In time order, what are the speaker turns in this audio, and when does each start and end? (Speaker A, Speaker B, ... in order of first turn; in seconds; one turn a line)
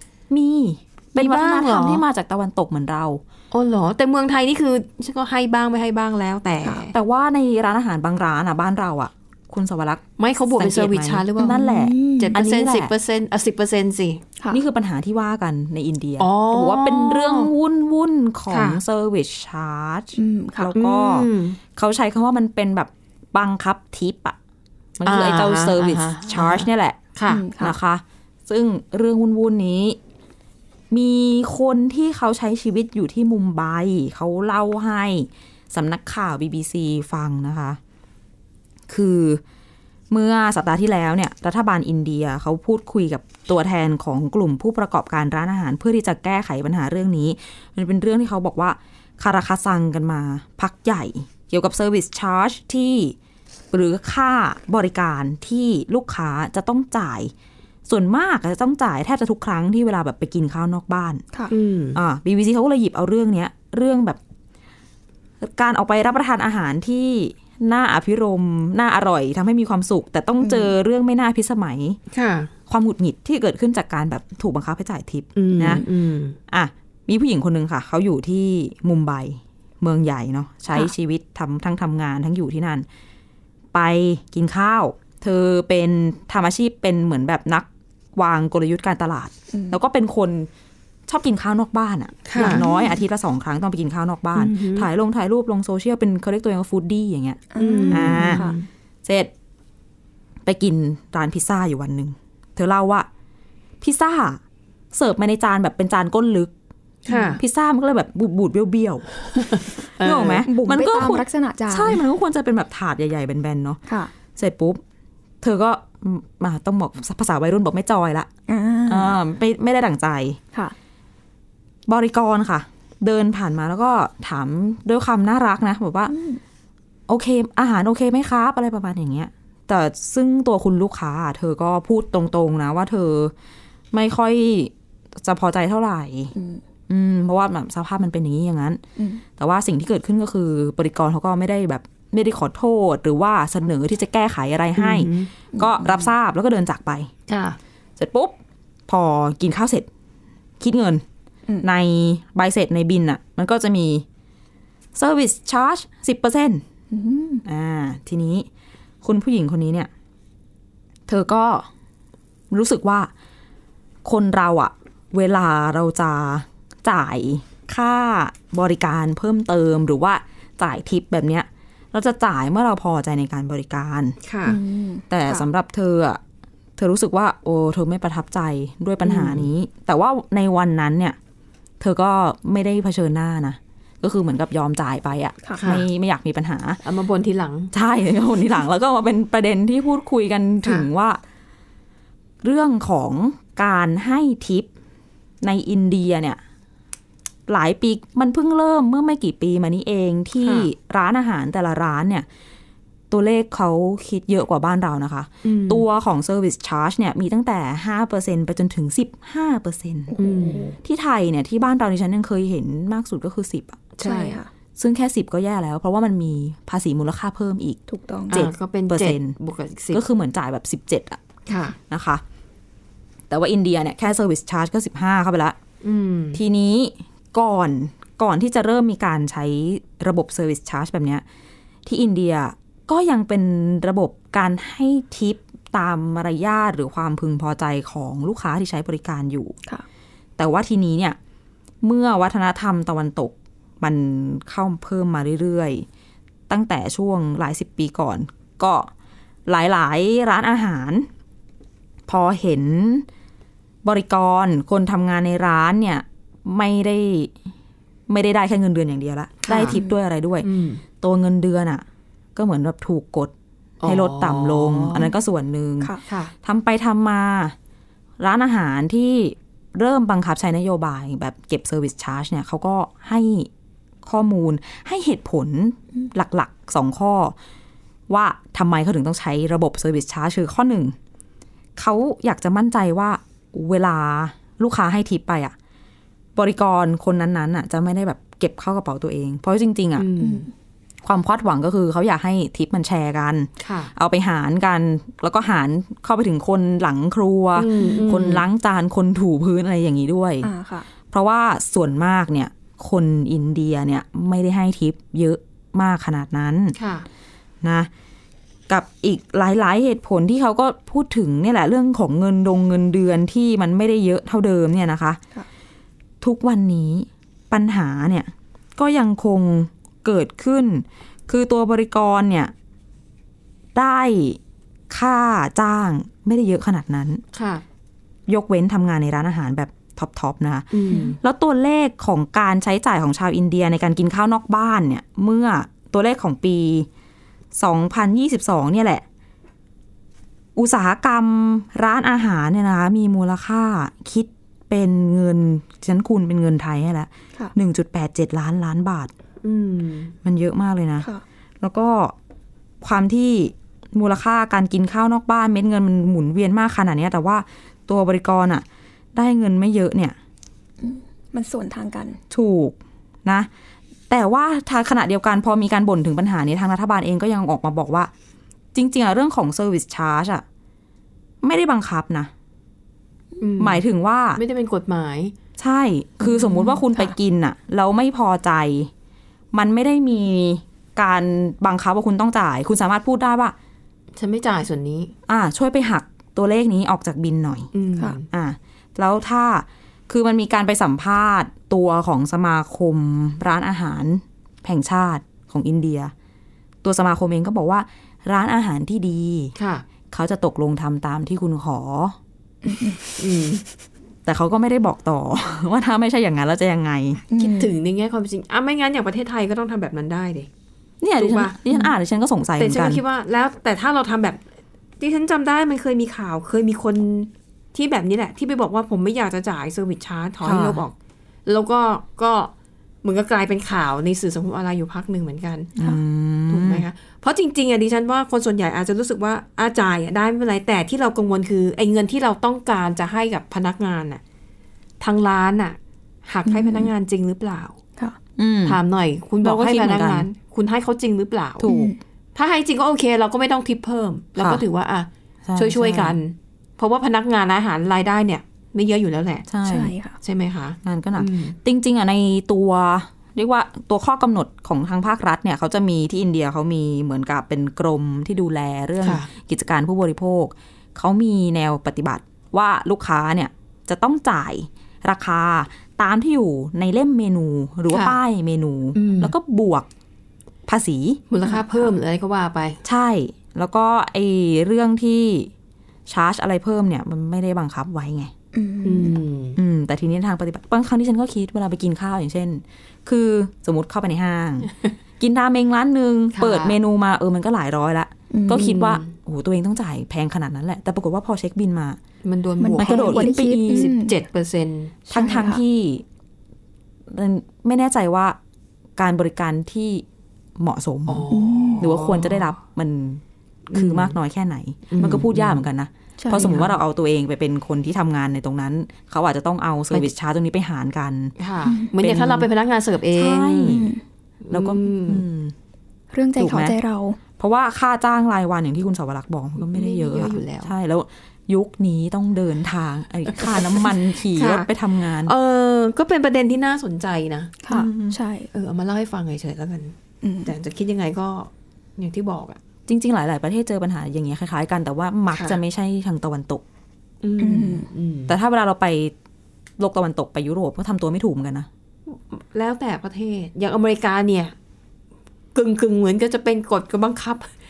Speaker A: 0.3-3.2
Speaker B: 1.1-2.0
Speaker B: 3.5-6.9
Speaker A: 6.9-12.9
Speaker B: 10.2-11.6
Speaker C: 11.4-12.3
Speaker B: 12.2-14.2
Speaker A: 14.5-24.4
Speaker B: 16.2-17.5
Speaker B: 18.5-18.8
Speaker C: 20.2-20.7
Speaker B: 20.8-21.6
Speaker A: 25.0-27.0
Speaker B: 25.1-27.4
Speaker C: 27.3-27.8
Speaker A: 27.6-30.0
Speaker A: 30.9-37.8
Speaker A: 38.9-39.4
Speaker A: 40.1-53.1
Speaker A: 53.7-57.3
Speaker A: 57.9-61.2
Speaker B: 61.5-62.0
Speaker A: 61.9-64.2
Speaker A: 65.4-72.0
Speaker C: 70.4-70.7
Speaker B: 72.1-72.5
Speaker A: 72.7-75.9
Speaker B: 75.3-76.4
Speaker A: 76.5-82.9
Speaker A: 83.7-90.5
Speaker C: 89.5-89.8
Speaker A: 91.1-98.4
Speaker B: 92.3-92.6
Speaker C: 92.4-92.9
Speaker B: 94.4-94.9
Speaker C: 97.5-98.5
Speaker B: 97.6-98.7
Speaker A: 99.0-99.3
Speaker A: 100.5-103.1
Speaker A: 103.8-104.4
Speaker A: 104.9-106.5
Speaker B: 107.1-107.4
Speaker C: 107.1-107.4
Speaker A: 107.4-109.2
Speaker B: 109.3-110.5
Speaker A: 110.0-113.8
Speaker C: 110.5-112.0
Speaker A: 114.3-114.8
Speaker A: 115.4-118.3
Speaker C: 118.5-119.2
Speaker A: 118.9-120.4
Speaker A: 121.9-126.1
Speaker C: 126.1-126.4
Speaker A: 127.1-133.3
Speaker A: 133.9-136.3
Speaker C: 136.3-136.6
Speaker A: 136.9-138.8
Speaker C: 139.0-139.2
Speaker A: 139.4-147.1
Speaker B: 144.8-145.3
Speaker C: 145.5-146.0
Speaker B: 147.3-147.6
Speaker A: 148.0-148.3
Speaker A: 148.9-149.9
Speaker A: 150.6-151.0
Speaker A: 151.6-154.1
Speaker A: 154.9-156.6
Speaker C: 156.9-157.4
Speaker A: 157.4-158.5
Speaker A: 159.0-159.9
Speaker A: 161.1-161.7
Speaker A: 162.5-163.1
Speaker A: 164.0-174.2
Speaker B: 174.2-174.6
Speaker C: 174.5-175.4
Speaker A: 175.1-176.2
Speaker A: 176.8-181.2
Speaker B: 179.0-179.4
Speaker A: 181.8-186.8
Speaker B: 185.6-185.9
Speaker B: 186.8-187.7
Speaker A: 187.7-191.2
Speaker A: 192.4-194.7
Speaker A: 195.4-196.4
Speaker A: 197.5-202.2
Speaker B: 200.4-200.7
Speaker A: 203.1-210.1
Speaker B: 205.4-205.8
Speaker C: 210.1-210.7
Speaker B: 210.2-210.7
Speaker A: 210.8-214.0
Speaker B: 214.0-214.4
Speaker C: 214.0-214.5
Speaker A: 214.8-217.8
Speaker C: 217.9-218.5
Speaker A: 218.3-219.3
Speaker B: 218.3-220.0
Speaker A: 219.9-221.2
Speaker B: 221.5-221.8
Speaker A: 221.8-222.2
Speaker A: 223.3-225.6
Speaker B: 225.8-226.4
Speaker A: 226.3-231.2
Speaker A: 231.8-239.5
Speaker A: 240.4-241.2
Speaker A: 241.8-245.9
Speaker A: 246.5-248.9
Speaker A: 249.5-251.1
Speaker A: 252.1-253.1
Speaker A: 253.8-257.3
Speaker A: 258.1-260.5
Speaker B: 259.5-259.8
Speaker B: 260.4-260.8
Speaker A: 261.0-261.8
Speaker A: 262.4-263.3
Speaker B: 263.8-265.1
Speaker A: 263.8-267.5
Speaker B: 266.1-266.3
Speaker A: 268.2-273.5
Speaker A: 274.0-277.4
Speaker A: 278.1-281.0
Speaker A: 281.8-285.5
Speaker A: 286.4-290.1
Speaker B: 290.0-290.5
Speaker C: 290.2-290.5
Speaker A: 291.0-300.5
Speaker B: 293.6-293.9
Speaker B: 297.6-298.4
Speaker C: 300.4-300.9
Speaker A: 301.1-306.8
Speaker B: 306.8-307.1
Speaker A: 307.6-307.9
Speaker A: 308.7-315.2
Speaker A: 316.2-322.5
Speaker A: 323.8-324.4
Speaker A: 324.9-327.2
Speaker B: 327.3-327.6
Speaker A: 328.3-336.9
Speaker B: 330.7-331.2
Speaker C: 330.9-331.1
Speaker A: 337.5-339.0
Speaker A: 340.6-349.1
Speaker B: 349.4-350.1
Speaker A: 350.2-351.1
Speaker A: 351.6-352.1
Speaker A: 352.8-360.1
Speaker C: 360.8-362.2
Speaker A: 362.3-363.5
Speaker A: 364.1-368.1
Speaker A: 368.7-370.4
Speaker A: 371.4-372.3
Speaker B: 373.4-373.8
Speaker A: 373.6-374.4
Speaker B: 374.4-375.3
Speaker A: 375.6-378.9
Speaker C: 376.2-377.1
Speaker A: 379.5-383.5
Speaker B: 384.1-385.1
Speaker A: 385.3-387.7
Speaker B: 387.7-388.2
Speaker A: 388.3-396.1
Speaker A: 396.8-399.5
Speaker B: 399.6-399.8
Speaker A: 400.1-402.2
Speaker C: 402.6-403.0
Speaker B: 403.2-403.6
Speaker A: 404.2-407.2
Speaker C: 407.3-407.7
Speaker B: 407.4-410.5
Speaker A: 411.0-413.0
Speaker B: 411.2-411.9
Speaker B: 412.6-414.4
Speaker B: 415.0-420.9
Speaker A: 420.4-420.8
Speaker B: 421.5-422.5
Speaker B: 423.0-425.7
Speaker A: 425.8-426.9
Speaker B: 426.5-434.2
Speaker B: 435.0-437.8
Speaker C: 436.5-436.9
Speaker A: 438.4-438.8
Speaker B: 438.6-441.7
Speaker A: 439.4-440.2
Speaker A: 441.6-441.9
Speaker C: 441.6-442.0
Speaker B: 442.4-449.5
Speaker A: 445.5-446.1
Speaker A: 449.5-449.9
Speaker C: 449.6-450.2
Speaker B: 450.2-451.6
Speaker A: 450.8-469.9
Speaker B: 459.0-459.3
Speaker B: 467.9-468.1
Speaker B: 468.9-469.3
Speaker A: 470.7-471.2
Speaker B: 471.3-472.8
Speaker C: 471.4-471.9
Speaker A: 472.8-475.5
Speaker A: 476.1-478.3
Speaker C: 478.5-479.2
Speaker B: 478.9-479.6
Speaker A: 479.6-492.0
Speaker B: 486.3-486.8
Speaker C: 488.3-488.7
Speaker B: 488.5-489.1
Speaker B: 492.2-495.0
Speaker C: 492.6-494.1
Speaker A: 492.8-493.9
Speaker A: 495.1-496.0
Speaker C: 495.1-495.6
Speaker A: 497.1-498.4
Speaker A: 499.0-500.0
Speaker A: 500.6-501.3
Speaker B: 501.1-502.5
Speaker C: 501.3-501.9
Speaker A: 501.8-503.2
Speaker B: 503.7-504.1
Speaker A: 503.7-511.3
Speaker B: 504.9-505.6
Speaker C: 506.2-506.5
Speaker B: 506.3-506.7
Speaker B: 511.4-513.9
Speaker C: 511.6-511.9
Speaker A: 512.0-512.5
Speaker A: 513.1-513.9
Speaker C: 513.6-514.0
Speaker B: 514.4-515.2
Speaker A: 514.5-515.5
Speaker C: 516.1-517.2
Speaker A: 516.4-516.8
Speaker A: 517.4-525.3
Speaker B: 519.6-520.7
Speaker B: 524.3-524.7
Speaker B: 525.2-527.6
Speaker C: 527.6-528.5
Speaker A: 527.7-528.2
Speaker B: 528.5-532.6
Speaker C: 530.2-530.5
Speaker A: 532.9-536.6
Speaker B: 535.3-535.6
Speaker B: 537.2-538.4
Speaker C: 537.4-537.9
Speaker A: 538.3-539.1
Speaker A: 539.8-541.7
Speaker B: 542.1-544.5
Speaker B: 545.5-547.5